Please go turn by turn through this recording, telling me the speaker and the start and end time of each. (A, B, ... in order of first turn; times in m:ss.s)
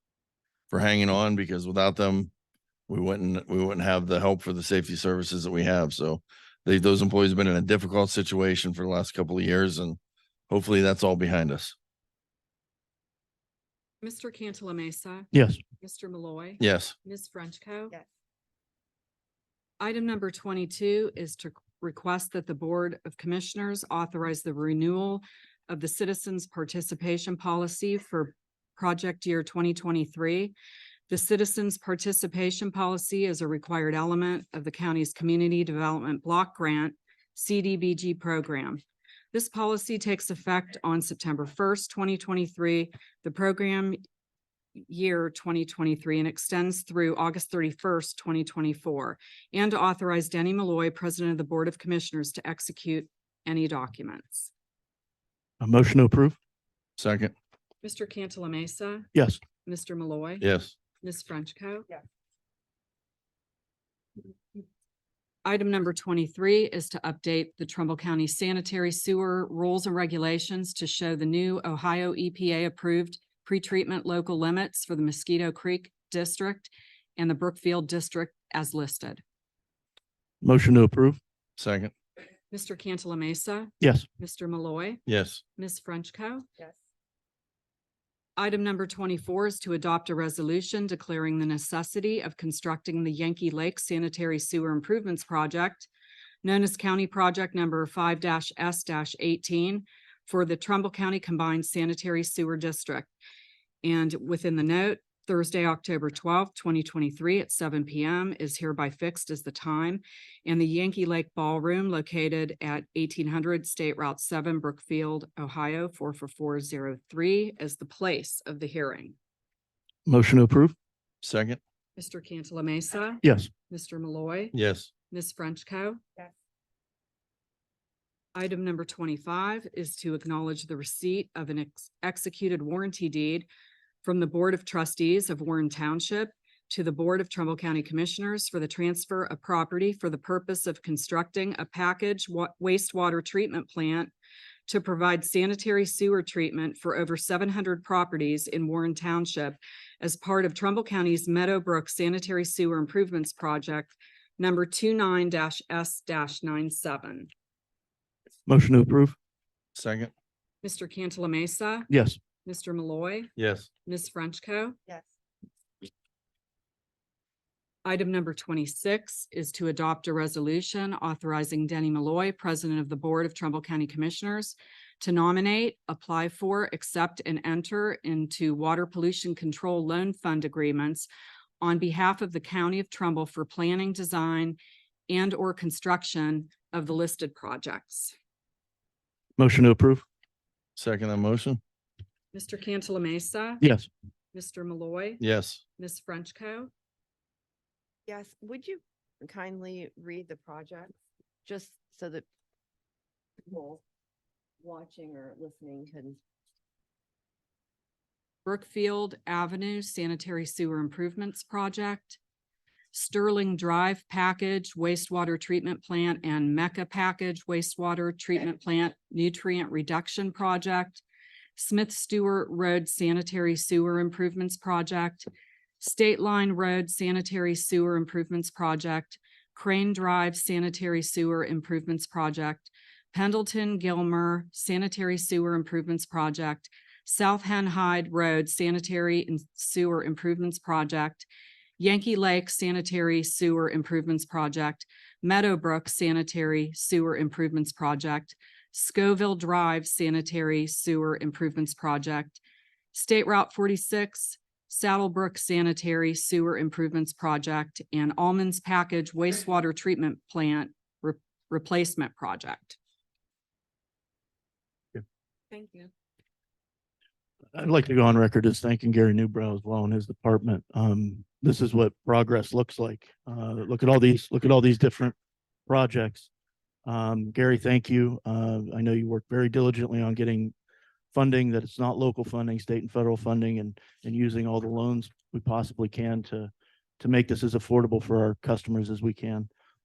0:00.7-0:02.3 A
0:02.9-0:10.0 A
0:10.5-0:11.8 A
0:14.0-0:17.9 B
0:15.3-0:15.6 C
0:16.6-0:16.9 A
0:19.8-0:30.5 B
0:31.1-0:38.8 B
0:39.3-0:44.0 B
0:44.8-0:54.5 B
0:55.6-0:56.4 C
0:57.0-0:57.3 A
0:57.8-0:59.1 B
0:59.1-0:59.4 C
0:59.6-1:00.4 B
1:00.4-1:00.7 A
1:01.0-1:01.9 B
1:05.4-1:19.2 B
1:20.4-1:21.2 C
1:21.6-1:21.9 A
1:22.5-1:26.4 B
1:23.8-1:24.0 C
1:25.1-1:25.4 A
1:28.4-1:35.9 B
1:36.4-1:43.1 B
1:43.8-1:59.2 B
2:00.0-2:00.7 C
2:01.2-2:01.6 A
2:02.0-2:04.5 B
2:03.2-2:03.5 C
2:04.5-2:04.9 A
2:05.1-2:06.0 B
2:08.3-2:13.4 B
2:14.0-2:24.1 B
2:24.7-2:37.3 B
2:38.4-2:39.2 C
2:39.7-2:40.1 A
2:40.6-2:41.9 B
2:41.9-2:42.2 C
2:42.4-2:43.3 B
2:43.4-2:43.7 A
2:43.8-2:44.8 B
2:47.8-3:01.1 B
3:01.6-3:08.1 B
3:09.4-3:10.0 C
3:10.8-3:11.6 A
3:12.3-3:13.6 B
3:13.6-3:13.9 C
3:14.3-3:15.2 B
3:15.2-3:15.6 A
3:15.8-3:16.7 B
3:18.1-3:20.9 D
3:21.4-3:22.2 D
3:23.4-3:23.8 D
3:24.6-3:26.2 D
3:28.4-3:32.2 B
3:32.9-3:41.0 B
3:41.6-3:45.3 B
3:45.8-4:01.3 B
4:01.8-4:12.4 B
4:12.9-4:22.8 B
4:25.5-4:25.9 D
4:27.5-4:35.1 C
4:35.7-4:36.3 C
4:36.8-4:40.5 C
4:41.1-4:49.5 C